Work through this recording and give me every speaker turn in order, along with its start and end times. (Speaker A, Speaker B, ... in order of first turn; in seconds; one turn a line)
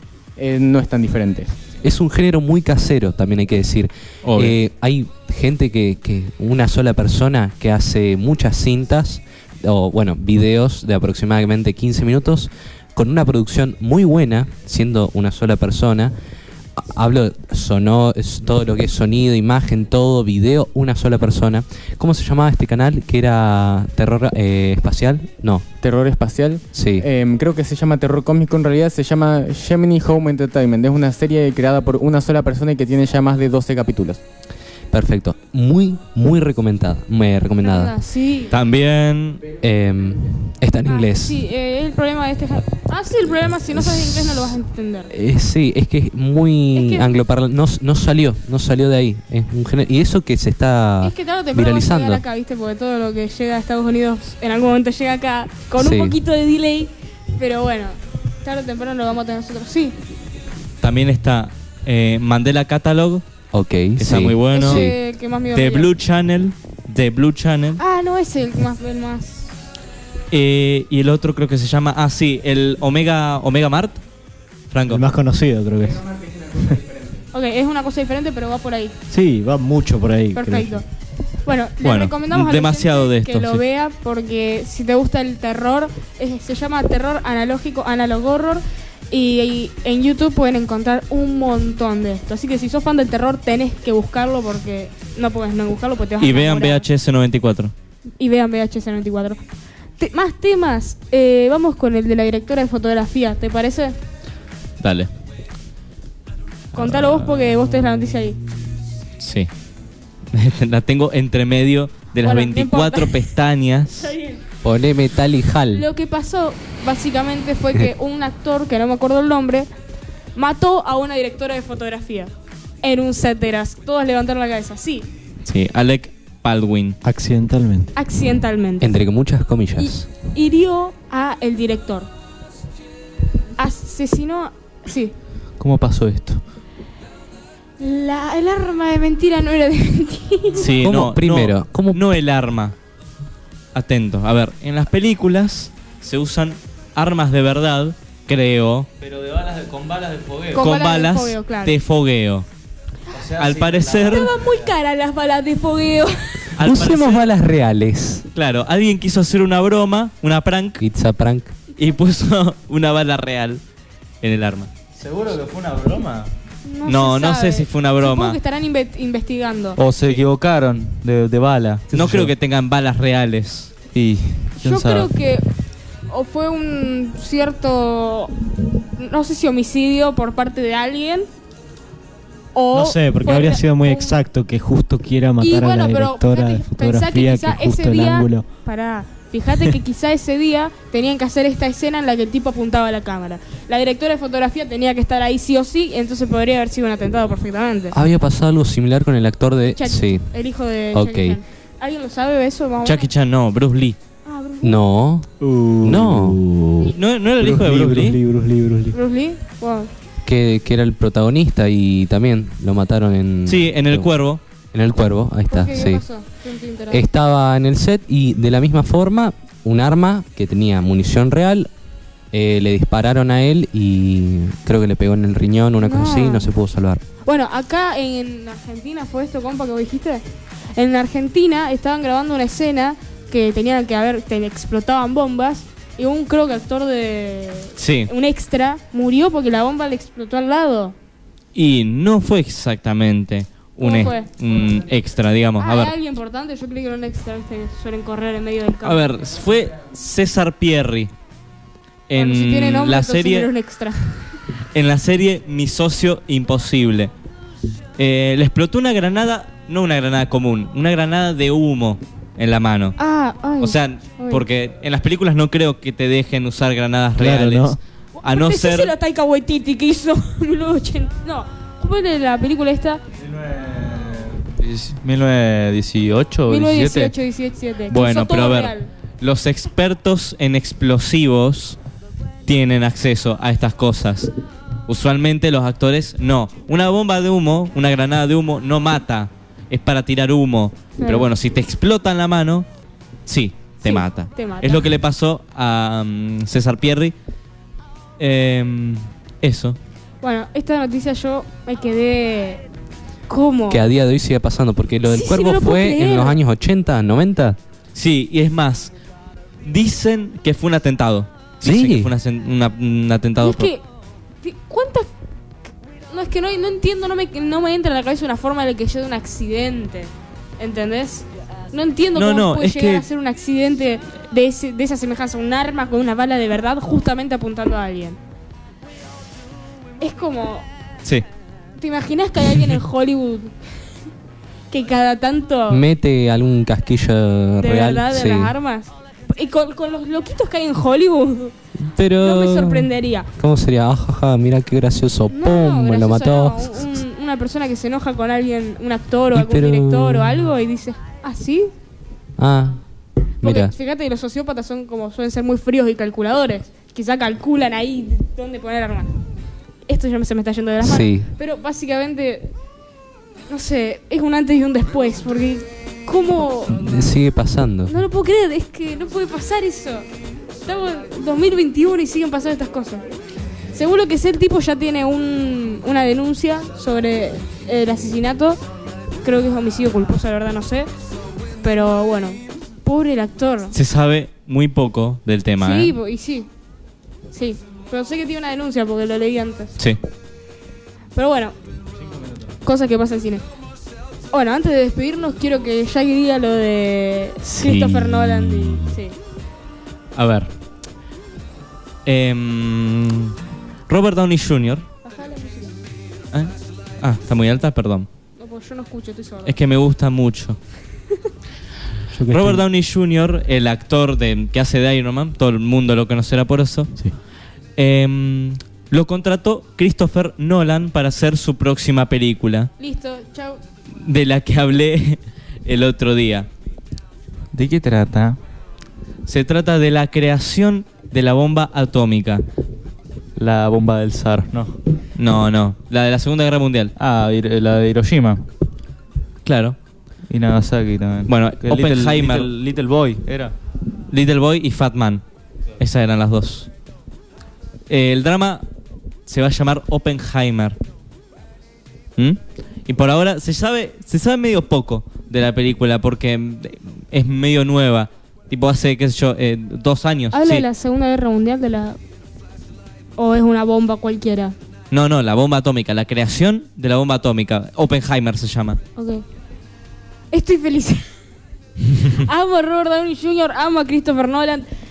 Speaker A: 0.4-1.5
Speaker B: 1.8-16.1
Speaker C: 4.2-4.6
Speaker B: 16.8-25.6
Speaker A: 25.8-34.2
Speaker B: 26.7-27.1
Speaker B: 34.9-37.9
Speaker D: 37.6-38.5
Speaker C: 38.5-39.4
Speaker B: 39.6-41.4
Speaker D: 40.9-45.1
Speaker B: 43.7-44.6
Speaker B: 45.1-52.2
Speaker D: 46.7-47.1
Speaker D: 51.0-60.0
Speaker B: 55.8-56.2
Speaker C: 60.8-63.2
Speaker B: 63.5-64.9
Speaker C: 64.0-64.9
Speaker D: 64.5-65.9
Speaker C: 65.5-67.8
Speaker D: 67.8-69.5
Speaker C: 70.3-74.0
Speaker C: 74.7-75.0
Speaker E: 74.9-76.0
Speaker A: 76.1-77.1
Speaker D: 77.3-78.9
Speaker E: 79.1-80.8
Speaker D: 80.3-80.8
Speaker D: 81.5-96.8
Speaker C: 81.8-83.6
Speaker C: 96.2-97.7
Speaker D: 98.2-99.4
Speaker D: 100.0-104.0
Speaker C: 104.8-105.1
Speaker D: 106.7-108.4
Speaker C: 109.2-109.5
Speaker C: 110.3-114.1
Speaker D: 112.2-113.3
Speaker D: 114.0-114.4
Speaker B: 114.6-115.8
Speaker D: 115.7-119.7
Speaker D: 120.3-122.3
Speaker D: 122.8-125.1
Speaker C: 125.4-127.0
Speaker E: 127.0-127.9
Speaker D: 127.9-128.9
Speaker B: 128.8-130.1
Speaker D: 129.8-132.1
Speaker D: 133.6-135.1
Speaker F: 135.6-136.4
Speaker D: 137.8-140.7
Speaker C: 140.6-142.7
Speaker B: 140.8-142.0
Speaker C: 143.7-148.9
Speaker F: 149.0-150.7
Speaker D: 150.5-151.8
Speaker C: 150.6-152.5
Speaker F: 153.1-154.7
Speaker C: 153.4-154.3
Speaker D: 154.0-156.5
Speaker C: 156.6-157.3
Speaker B: 156.6-158.3
Speaker C: 158.3-160.8
Speaker B: 160.8-161.5
Speaker C: 161.8-163.6
Speaker C: 164.2-164.7
Speaker F: 164.9-166.3
Speaker D: 166.6-169.8
Speaker C: 166.8-168.4
Speaker F: 169.8-172.3
Speaker C: 171.9-173.7
Speaker F: 173.9-175.1
Speaker D: 174.6-175.4
Speaker D: 176.1-178.3
Speaker D: 178.9-181.3
Speaker D: 182.5-184.2
Speaker E: 182.7-188.4
Speaker D: 185.4-198.0
Speaker B: 197.9-200.3
Speaker D: 199.8-203.1
Speaker B: 200.9-201.4
Speaker C: 202.8-204.0
Speaker D: 204.2-204.8
Speaker B: 204.6-205.3
Speaker E: 205.4-208.9
Speaker B: 205.8-206.4
Speaker C: 206.9-208.2
Speaker D: 208.9-209.9
Speaker B: 210.2-214.1
Speaker C: 213.4-214.4
Speaker B: 214.7-216.0
Speaker D: 215.5-217.0
Speaker B: 216.9-221.7
Speaker B: 222.3-227.0
Speaker D: 225.8-226.5
Speaker D: 227.2-230.2
Speaker D: 230.7-240.9
Speaker C: 237.8-238.1
Speaker C: 241.5-245.9
Speaker D: 243.8-244.3
Speaker D: 245.6-249.0
Speaker C: 248.8-251.1
Speaker C: 252.1-253.5
Speaker D: 252.2-254.3
Speaker C: 254.7-257.1
Speaker C: 258.0-263.0
Speaker D: 263.0-264.4
Speaker C: 263.6-268.9
Speaker E: 267.2-267.8
Speaker D: 268.1-273.0
Speaker F: 273.2-277.1
Speaker D: 276.5-278.9
Speaker C: 277.9-281.8
Speaker C: 282.4-284.3
Speaker C: 284.9-292.6
Speaker D: 291.0-291.3
Speaker C: 293.3-297.1
Speaker D: 293.8-294.9
Speaker C: 298.2-299.8
Speaker D: 300.2-302.6
Speaker D: 303.3-303.9
Speaker B: 303.7-307.6
Speaker D: 305.1-306.4
Speaker C: 307.9-308.9
Speaker C: 309.6-313.7
Speaker B: 311.6-312.1
Speaker D: 313.4-313.8
Speaker D: 314.4-315.1
Speaker D: 316.1-328.2
Speaker C: 322.1-323.0
Speaker D: 330.0-330.6
Speaker D: 331.8-333.5
Speaker D: 334.7-335.8
Speaker B: 335.7-338.5
Speaker D: 337.6-341.5
Speaker B: 341.8-346.9
Speaker D: 342.2-343.3
Speaker D: 345.3-351.7
Speaker B: 349.3-350.4
Speaker B: 352.4-352.8
Speaker B: 353.4-353.7
Speaker D: 353.4-359.1
Speaker D: 359.9-362.5
Speaker B: 360.8-361.3
Speaker D: 363.5-366.9
Speaker B: 366.7-367.9
Speaker D: 367.9-370.1
Speaker D: 370.6-373.2
Speaker D: 373.7-378.6
Speaker D: 379.2-380.9
Speaker D: 381.6-383.7
Speaker C: 383.7-385.9
Speaker D: 385.6-386.5
Speaker D: 387.3-389.7
Speaker D: 391.1-391.5
Speaker D: 392.6-393.4
Speaker D: 394.3-399.1
Speaker C: 397.6-398.2
Speaker C: 400.1-400.5
Speaker C: 402.1-403.3
Speaker C: 403.9-404.8
Speaker D: 405.0-405.8
Speaker C: 406.3-408.1
Speaker D: 408.4-409.6
Speaker C: 409.4-410.6
Speaker E: 412.1-412.6
Speaker C: 412.3-416.9
Speaker C: 417.8-422.7
Speaker D: 422.8-423.6
Speaker C: 424.0-426.5
Speaker F: 427.5-428.4
Speaker C: 429.3-432.4
Speaker F: 433.4-434.8
Speaker C: 435.2-436.9
Speaker F: 436.9-438.4
Speaker C: 439.4-439.8
Speaker F: 440.3-443.5
Speaker C: 441.3-442.5
Speaker C: 444.1-445.2
Speaker C: 445.8-446.7
Speaker C: 447.9-448.6
Speaker C: 449.3-450.8
Speaker C: 452.2-460.6
Speaker D: 460.3-462.0
Speaker D: 463.2-464.5
Speaker C: 464.9-468.8
Speaker D: 468.9-469.2
Speaker D: 470.3-471.0
Speaker D: 471.9-474.7